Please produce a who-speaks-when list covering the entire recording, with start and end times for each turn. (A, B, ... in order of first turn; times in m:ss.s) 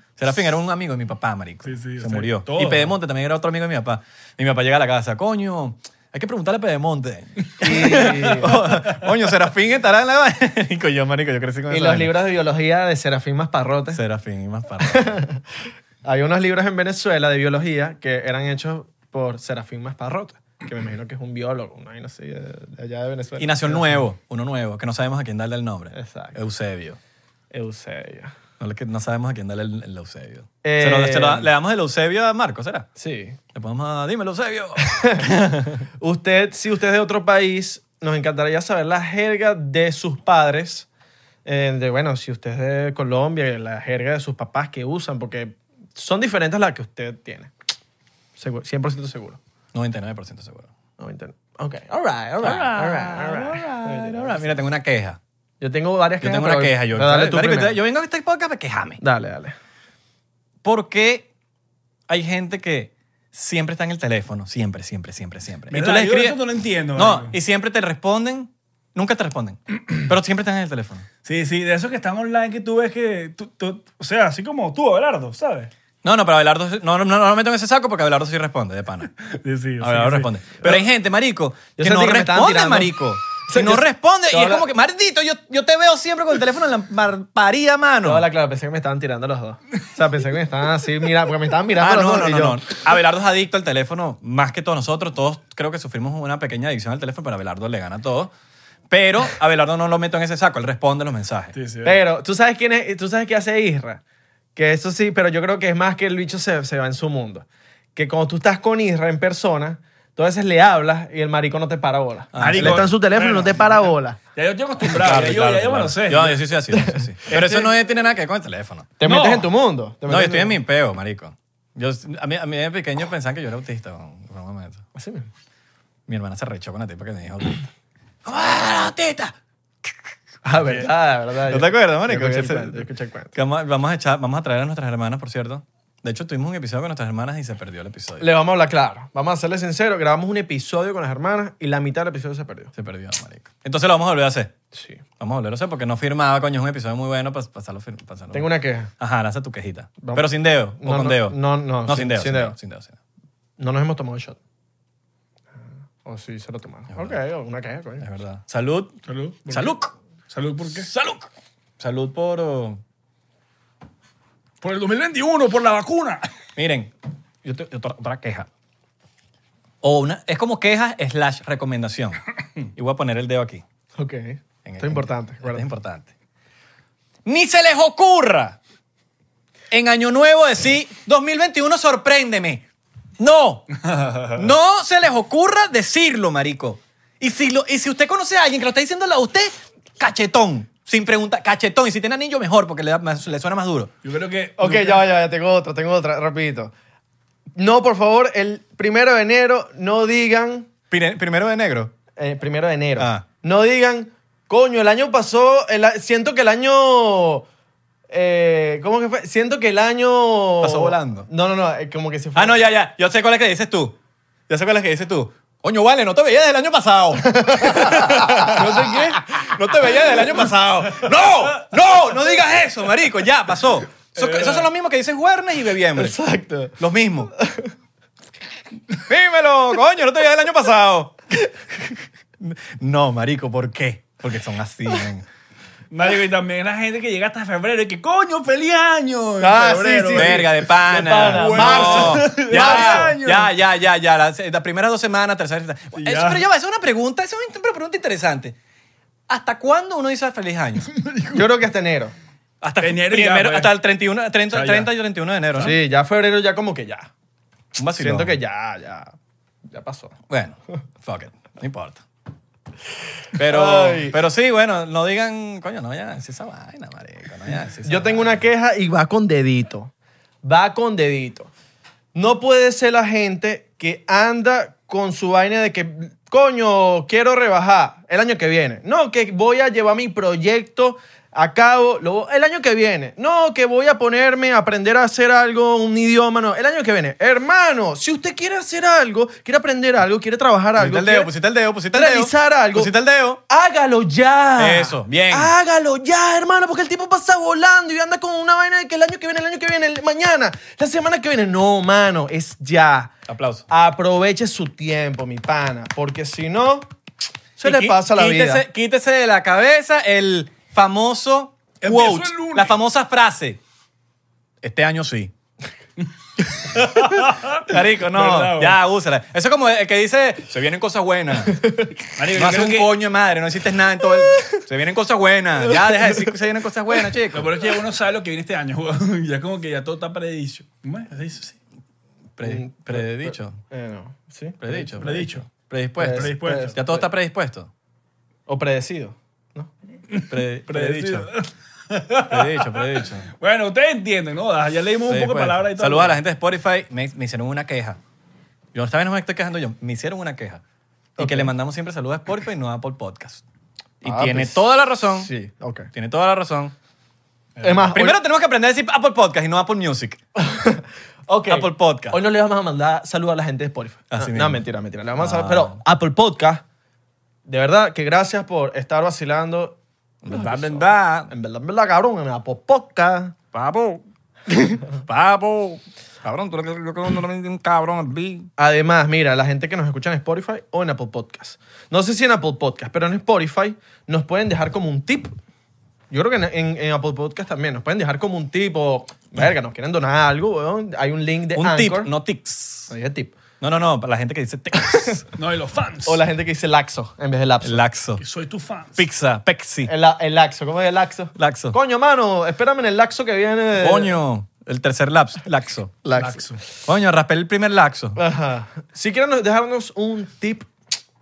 0:00.2-0:12.1 A
0:01.6-0:02.9 B
0:07.6-0:08.6 C
0:07.8-0:08.2 B
0:11.7-0:14.0 C
0:13.9-0:15.2 A
0:14.8-0:15.4 C
0:16.0-0:24.0 C
0:23.4-0:27.0 A
0:25.9-0:26.4 C
0:27.5-0:28.3 C
0:28.6-0:32.9 A
0:30.6-0:31.5 C
0:33.0-0:33.4 C
0:33.5-0:35.8 A
0:34.8-0:35.3 C
0:36.0-0:40.9 C
0:41.4-0:47.5 C
0:48.4-0:49.4 C
0:49.7-0:50.7 A
0:51.0-0:54.4 C
0:52.4-0:55.2 A
0:55.6-0:57.8 C
0:56.2-0:59.0 A
0:59.0-0:59.6 C
1:00.6-1:01.3 A
1:02.1-1:06.4 A
1:05.7-1:07.4 B
1:06.9-1:11.0 A
1:11.2-1:15.7 B
1:16.0-1:19.1 A
1:19.3-1:20.3 B
1:19.8-1:28.2 A
1:21.8-1:24.7 C
1:28.0-1:32.6 C
1:31.8-1:38.3 A
1:38.9-1:41.5 A
1:41.5-1:42.0 B
1:41.8-1:44.0 C
1:44.6-1:54.2 C
1:52.3-1:52.9 A
1:52.4-1:56.4 B
1:54.9-1:58.9 A
1:56.8-1:57.0 C
1:57.3-1:57.7 B
1:59.0-2:00.6 C
1:59.0-1:59.5 B
2:00.1-2:04.8 A
2:04.9-2:05.3 C
2:06.1-2:07.6 A
2:08.2-2:09.3 A
2:10.4-2:13.3 C
2:11.5-2:18.3 A
2:18.2-2:22.7 C
2:22.7-2:24.5 A
2:24.7-2:25.0 C
2:25.2-2:33.0 A
2:28.3-2:28.9 C
2:30.0-2:30.3 C
2:30.8-2:32.6 C
2:33.6-2:34.4 C
2:36.0-2:38.0 C
2:36.9-2:37.2 A
2:38.0-2:38.9 A
2:39.0-2:39.7 B
2:39.5-2:39.9 A
2:40.3-2:40.9 B
2:40.8-2:42.8 A
2:44.6-2:46.2 B
2:46.6-2:46.9 A
2:47.4-2:48.5 A
2:49.8-2:53.6 A
2:53.9-2:55.7 C
2:54.6-2:56.1 A
2:57.2-2:58.6 A
2:59.7-3:02.6 A
3:03.2-3:03.7 A
3:03.9-3:04.4 B
3:04.3-3:13.9 A
3:14.0-3:15.0 B
3:14.6-3:16.7 C
3:17.6-3:20.7 C
3:20.9-3:21.9 A
3:22.2-3:27.4 C
3:23.0-3:23.2 A
3:28.1-3:32.6 C
3:30.6-3:31.3 A
3:32.3-3:34.0 A
3:34.5-3:46.2 A
3:37.2-3:38.8 C
3:44.2-3:44.7 B
3:45.9-3:46.8 C
3:46.8-3:47.3 A
3:47.4-3:47.7 C
3:49.0-3:51.2 A
3:52.4-3:55.2 A
3:55.9-4:03.5 B
3:59.4-4:03.2 C
4:00.1-4:08.6 A
4:05.9-4:06.4 B
4:09.3-4:10.9 A
4:11.0-4:11.4 B
4:11.3-4:12.1 C
4:12.6-4:15.8 A
4:12.8-4:13.7 B
4:14.5-4:14.9 B
4:15.6-4:17.1 C
4:17.7-4:18.4 A
4:18.0-4:19.1 C
4:19.7-4:20.1 C
4:20.3-4:22.0 A
4:23.3-4:28.4 A
4:23.4-4:24.2 C
4:27.8-4:29.9 C
4:30.4-4:31.5 C
4:32.1-4:51.3 C
4:50.8-4:53.4 A
4:51.9-4:52.9 C
4:53.5-5:03.1 C
4:54.6-4:55.5 A
5:03.3-5:03.6 A
5:03.7-5:06.9 C
5:07.6-5:08.6 C
5:07.6-5:13.6 A
5:11.8-5:12.8 B
5:14.6-5:15.3 A
5:16.6-5:18.8 B
5:16.7-5:21.7 A
5:21.6-5:21.9 C
5:22.1-5:22.9 B
5:22.3-5:27.5 A
5:25.7-5:26.2 C
5:27.3-5:31.5 B
5:32.4-5:33.6 A
5:32.4-5:35.0 C
5:34.6-5:37.7 A
5:35.0-5:35.4 B
5:36.0-5:37.1 C
5:36.1-5:36.8 B
5:38.5-5:39.7 C
5:40.1-5:46.2 B
5:40.3-5:41.3 A
5:42.3-5:43.3 A
5:45.1-5:48.0 A
5:48.7-5:50.6 A
5:51.2-5:53.4 A
5:51.2-5:51.5 C
5:54.0-5:55.3 A
5:54.0-5:55.9 C
5:55.9-5:56.7 A
5:57.6-5:57.9 B
5:57.6-5:58.2 C
5:57.9-6:00.2 A
6:00.4-6:06.6 C
6:01.5-6:02.2 A
6:04.1-6:04.6 A
6:05.2-6:05.8 A
6:07.4-6:09.8 C
6:10.2-6:11.3 A
6:10.3-6:13.3 C
6:13.5-6:18.5 A
6:18.6-6:25.3 C
6:26.1-6:32.1 C
6:31.5-6:32.9 A
6:32.9-6:33.4 C
6:33.6-6:35.2 A
6:34.8-6:35.2 C
6:35.4-6:36.2 B
6:36.0-6:37.8 C
6:37.6-6:38.2 A
6:38.2-6:39.0 B
6:39.0-6:39.9 A
6:39.8-6:44.2 C
6:41.4-6:41.8 A
6:43.8-6:46.0 A
6:46.0-6:46.4 C
6:46.2-6:46.6 B
6:46.8-6:48.2 A
6:48.2-6:50.7 C